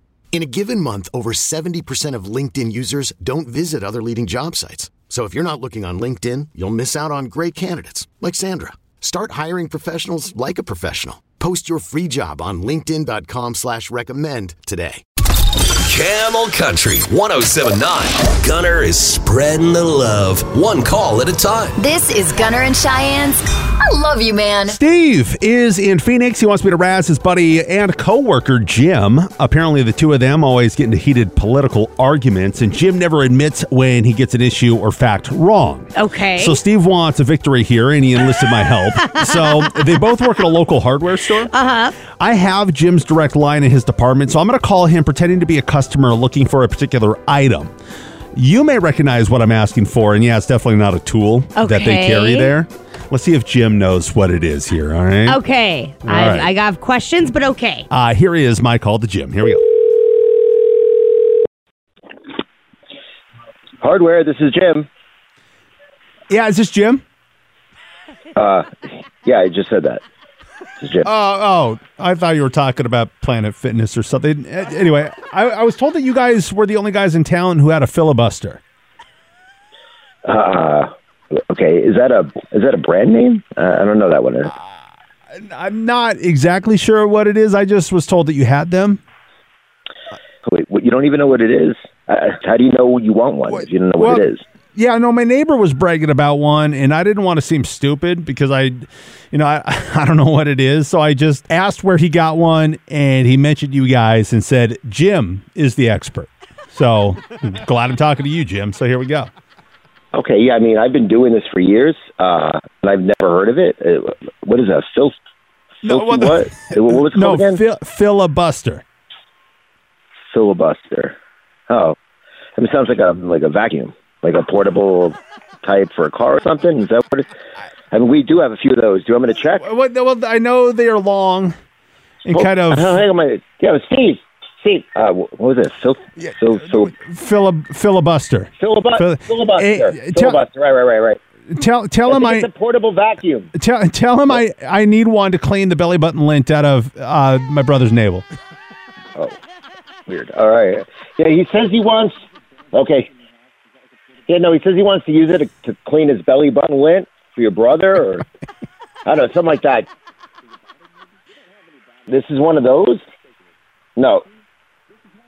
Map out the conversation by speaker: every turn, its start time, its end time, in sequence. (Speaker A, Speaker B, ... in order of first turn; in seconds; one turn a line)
Speaker A: 0.3-15.0
Speaker B: 15.8-21.7
Speaker C: 21.8-24.7
Speaker D: 24.7-41.5
Speaker E: 35.9-36.6
Speaker E: 38.9-39.7
Speaker E: 41.4-41.9
Speaker D: 42.2-47.7
Speaker D: 48.3-55.4
Speaker E: 51.5-52.5
Speaker E: 55.2-57.9
Speaker D: 56.0-56.5
Speaker D: 57.9-59.6
Speaker F: 63.8-64.9
Speaker D: 66.3-67.0
Speaker F: 68.3-68.7
Speaker F: 69.2-70.0
Speaker F: 70.8-71.1
Speaker D: 71.0-78.6
Speaker F: 80.2-80.9
Speaker F: 81.5-84.5
Speaker D: 85.3-89.0
Speaker F: 90.5-94.4
Speaker D: 93.5-109.3
Speaker F: 110.1-115.1
Speaker D: 115.8-118.8
Speaker F: 115.8-117.6
Speaker F: 120.3-121.1
Speaker F: 121.7-122.0
Speaker F: 122.6-127.3
Speaker F: 127.9-129.6
Speaker D: 129.5-131.6
Speaker D: 132.2-133.0
Speaker F: 132.3-136.9
Speaker D: 136.2-140.4
Speaker F: 138.6-141.2
Speaker D: 141.5-142.5
Speaker F: 142.1-143.5
Speaker D: 143.5-148.3
Speaker F: 150.1-152.1
Speaker F: 152.7-153.1
Speaker F: 154.3-158.2
Speaker F: 159.0-159.9
Speaker F: 162.1-163.0
Speaker F: 163.9-164.2